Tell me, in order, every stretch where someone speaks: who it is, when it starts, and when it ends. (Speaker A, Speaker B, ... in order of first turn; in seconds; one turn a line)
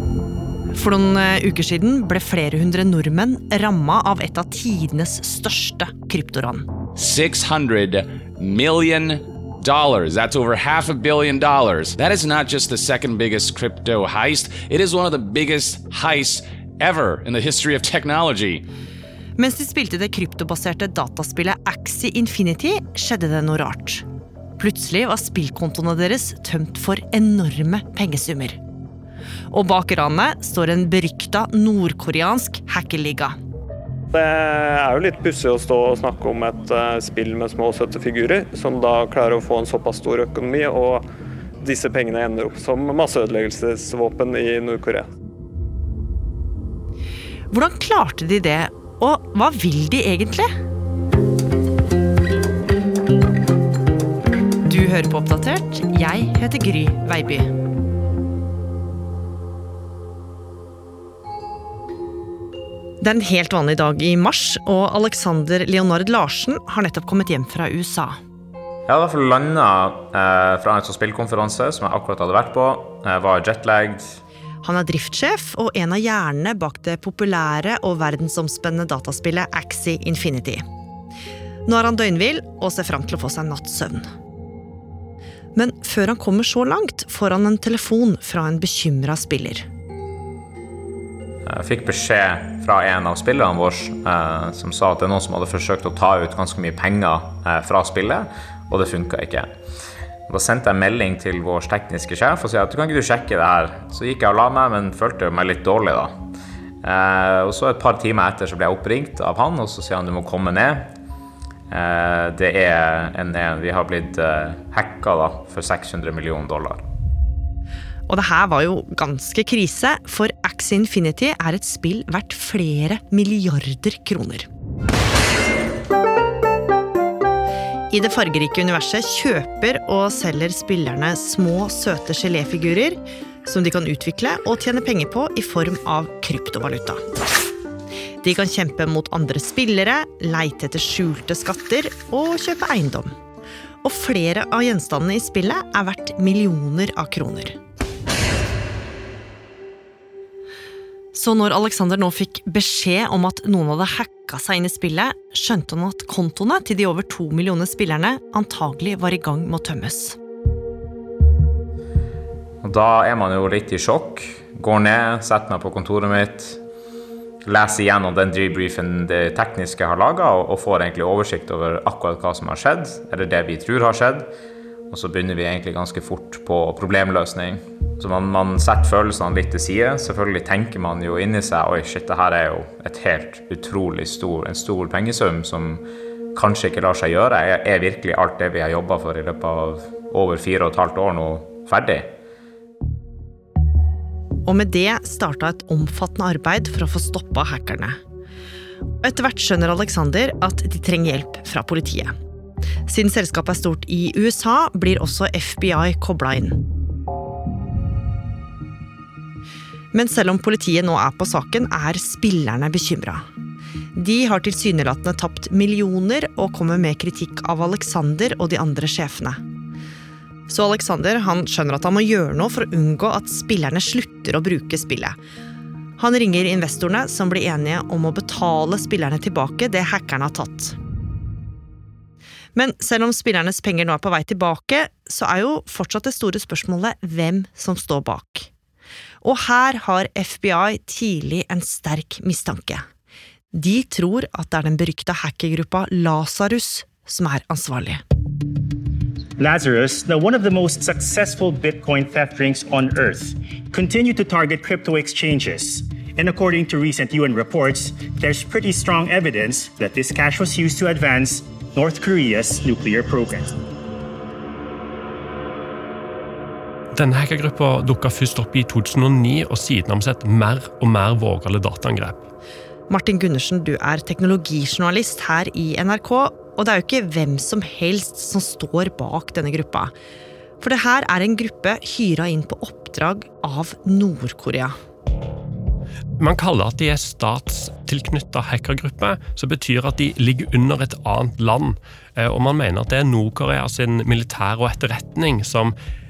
Speaker A: 0.7-6.7
Speaker B: 6.9-18.6
Speaker A: 19.4-24.0
Speaker A: 24.6-28.6
Speaker A: 29.5-33.4
Speaker C: 34.1-41.1
Speaker C: 41.6-45.1
Speaker A: 47.5-50.5
Speaker A: 54.6-57.5
Speaker A: 63.0-68.2
Speaker D: 68.9-74.2
Speaker A: 74.6-80.6
Speaker A: 81.7-84.0
Speaker A: 85.5-89.6
Speaker D: 91.5-99.5
Speaker D: 100.3-106.1
Speaker D: 106.8-110.9
Speaker D: 111.7-116.8
Speaker A: 118.1-124.5
Speaker A: 127.9-137.0
Speaker A: 138.2-143.1
Speaker A: 143.8-147.6
Speaker A: 151.1-160.2
Speaker D: 162.6-166.6
Speaker D: 167.4-174.3
Speaker D: 174.9-185.8
Speaker D: 186.3-192.1
Speaker A: 194.4-198.0
Speaker A: 199.0-202.1
Speaker A: 202.9-206.6
Speaker A: 209.9-213.2
Speaker A: 213.9-219.4
Speaker A: 220.5-225.2
Speaker A: 226.0-230.8
Speaker A: 232.5-238.5
Speaker A: 239.2-242.8
Speaker A: 243.5-248.0
Speaker E: 249.4-263.5
Speaker F: 266.9-272.2
Speaker A: 272.9-279.9
Speaker A: 280.6-284.7
Speaker F: 286.2-295.7